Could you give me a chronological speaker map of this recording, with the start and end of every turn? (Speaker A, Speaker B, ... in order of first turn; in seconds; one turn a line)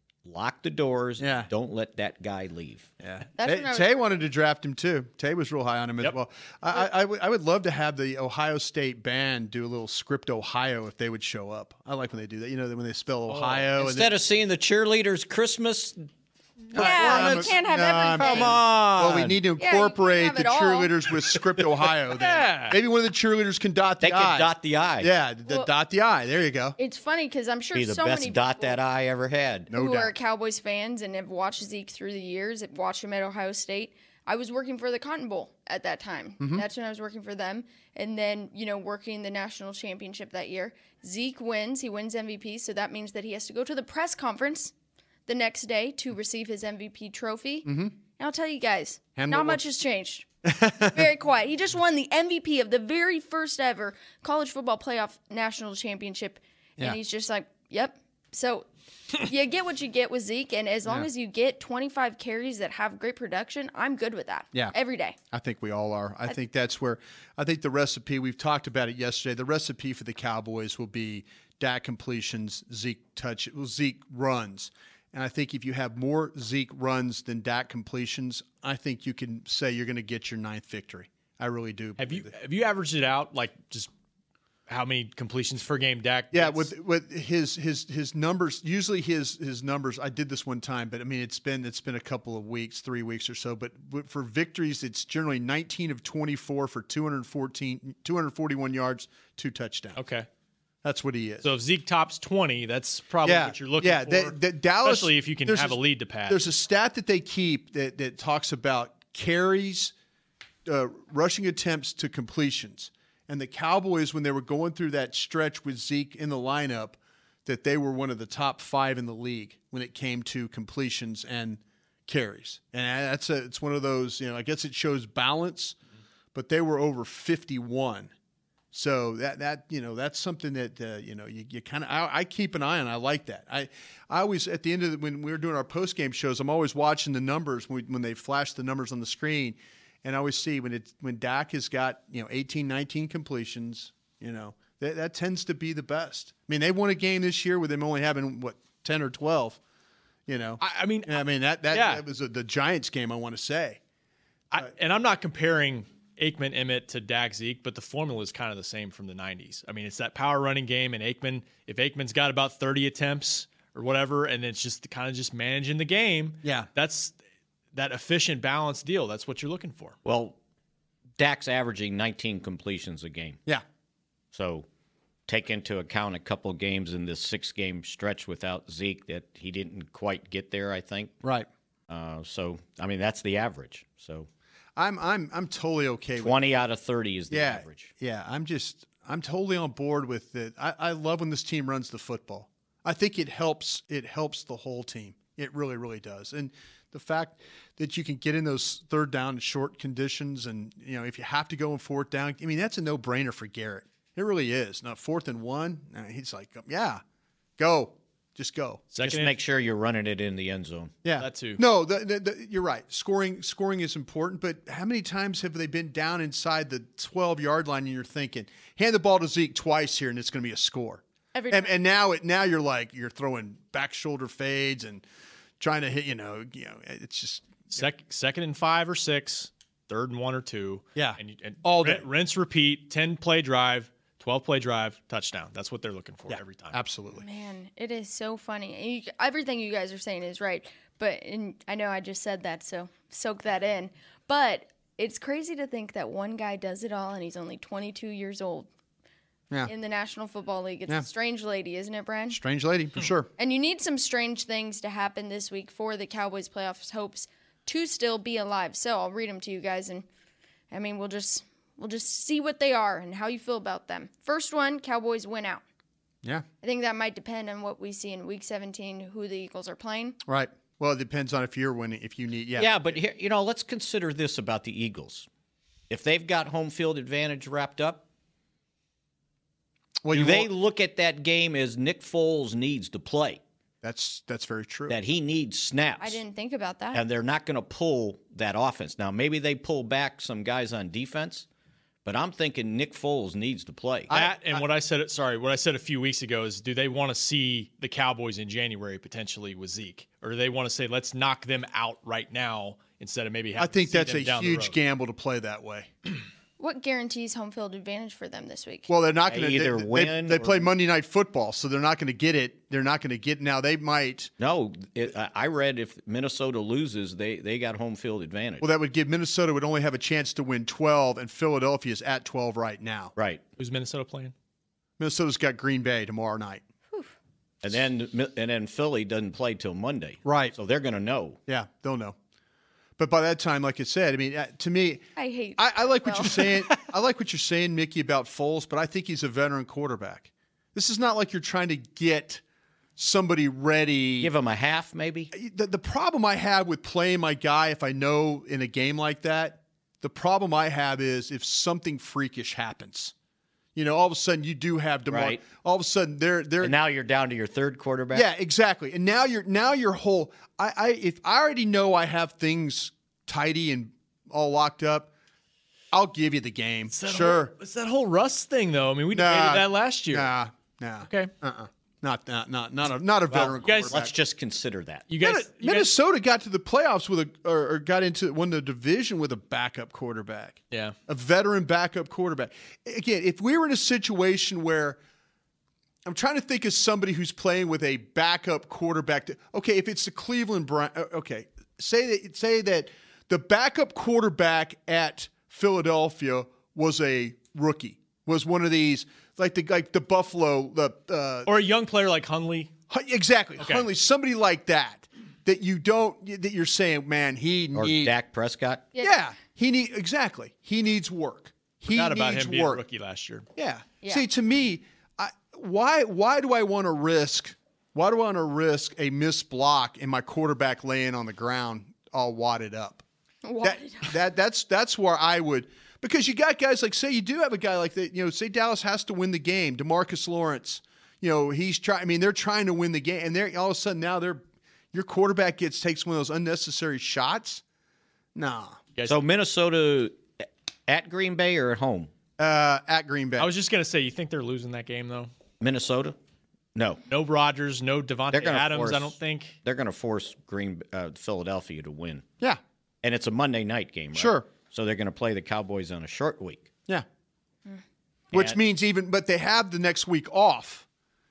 Speaker A: 0.2-2.9
Speaker B: 1.2-1.5
Speaker B: 3.0-14.2
Speaker C: 3.4-4.0
Speaker D: 13.3-13.7
Speaker A: 13.8-16.1
Speaker A: 16.7-17.6
Speaker B: 16.7-26.8
Speaker C: 16.8-18.6
Speaker A: 18.2-19.4
Speaker C: 19.6-20.9
Speaker D: 22.1-22.8
Speaker A: 24.0-25.1
Speaker C: 26.8-28.8
Speaker A: 27.7-29.7
Speaker B: 29.7-30.1
Speaker C: 29.7-44.7
Speaker B: 36.4-36.6
Speaker C: 45.3-50.3
Speaker B: 47.6-47.9
Speaker B: 49.2-49.6
Speaker B: 50.5-51.1
Speaker C: 50.8-65.2
Speaker B: 65.3-82.3
Speaker D: 82.0-83.9
Speaker D: 84.7-86.7
Speaker B: 86.3-100.0
Speaker D: 100.0-100.3
Speaker B: 100.8-101.5
Speaker D: 101.4-106.5
Speaker B: 103.2-109.9
Speaker B: 110.7-125.8
Speaker B: 126.3-128.1
Speaker B: 128.7-149.6
Speaker B: 150.3-153.8
Speaker D: 150.6-152.0
Speaker D: 154.5-167.2
Speaker B: 166.4-166.7
Speaker D: 167.7-170.0
Speaker A: 170.1-170.4
Speaker A: 171.2-173.4
Speaker A: 174.3-174.7
Speaker A: 175.3-181.2
Speaker B: 181.2-181.5
Speaker A: 181.9-184.3
Speaker B: 184.8-186.4
Speaker A: 186.2-187.9
Speaker B: 187.3-207.0
Speaker B: 207.6-208.8
Speaker D: 208.9-209.3
Speaker A: 209.0-211.0
Speaker B: 211.0-225.1
Speaker D: 211.2-211.6
Speaker C: 221.3-221.8
Speaker B: 225.6-227.6
Speaker D: 227.7-236.8
Speaker B: 231.0-232.1
Speaker B: 236.3-237.3
Speaker C: 237.2-248.7
Speaker C: 249.7-252.4
Speaker B: 252.3-253.3
Speaker C: 253.4-260.1
Speaker C: 260.7-265.6
Speaker C: 266.6-270.2
Speaker B: 270.3-272.7
Speaker A: 272.6-275.3
Speaker A: 275.9-278.1
Speaker B: 280.0-280.5
Speaker A: 280.1-283.4
Speaker B: 283.8-285.0
Speaker A: 284.9-286.2
Speaker C: 286.0-287.0
Speaker A: 286.9-291.5
Speaker A: 292.1-294.1
Speaker B: 294.1-294.6
Speaker D: 294.1-304.8
Speaker B: 303.6-305.9
Speaker C: 306.6-308.9
Speaker B: 308.9-314.3
Speaker A: 309.3-310.7
Speaker A: 314.4-318.7
Speaker B: 318.6-323.1
Speaker A: 323.2-323.4
Speaker D: 323.6-324.3
Speaker B: 325.0-326.6
Speaker A: 327.6-331.4
Speaker B: 330.2-330.6
Speaker B: 331.5-332.2
Speaker B: 333.0-342.4
Speaker C: 335.2-336.4
Speaker B: 343.0-344.3
Speaker A: 344.2-345.3
Speaker B: 345.3-353.1
Speaker B: 353.8-356.8
Speaker A: 355.1-355.4
Speaker A: 356.6-358.3
Speaker B: 358.1-365.1
Speaker B: 365.9-367.5
Speaker D: 366.9-370.3
Speaker B: 369.1-374.1
Speaker D: 371.1-371.3
Speaker A: 373.3-375.1
Speaker D: 373.6-373.9
Speaker D: 375.1-375.9
Speaker B: 375.2-385.0
Speaker B: 386.1-401.5
Speaker D: 401.5-402.7
Speaker B: 402.9-408.1
Speaker D: 403.6-403.9
Speaker A: 407.8-408.9
Speaker C: 408.9-409.2
Speaker B: 409.0-412.8
Speaker D: 411.9-413.5
Speaker B: 413.6-423.0
Speaker C: 423.4-424.2
Speaker B: 423.6-437.6
Speaker B: 438.4-438.8
Speaker D: 438.9-439.2
Speaker A: 439.1-440.2
Speaker A: 440.9-442.1
Speaker B: 442.4-443.5
Speaker D: 443.4-445.3
Speaker A: 445.6-446.2
Speaker A: 446.8-447.0
Speaker D: 447.1-449.6
Speaker A: 448.3-452.3
Speaker A: 453.0-456.7
Speaker B: 454.1-454.5
Speaker B: 458.3-460.9
Speaker A: 458.3-458.6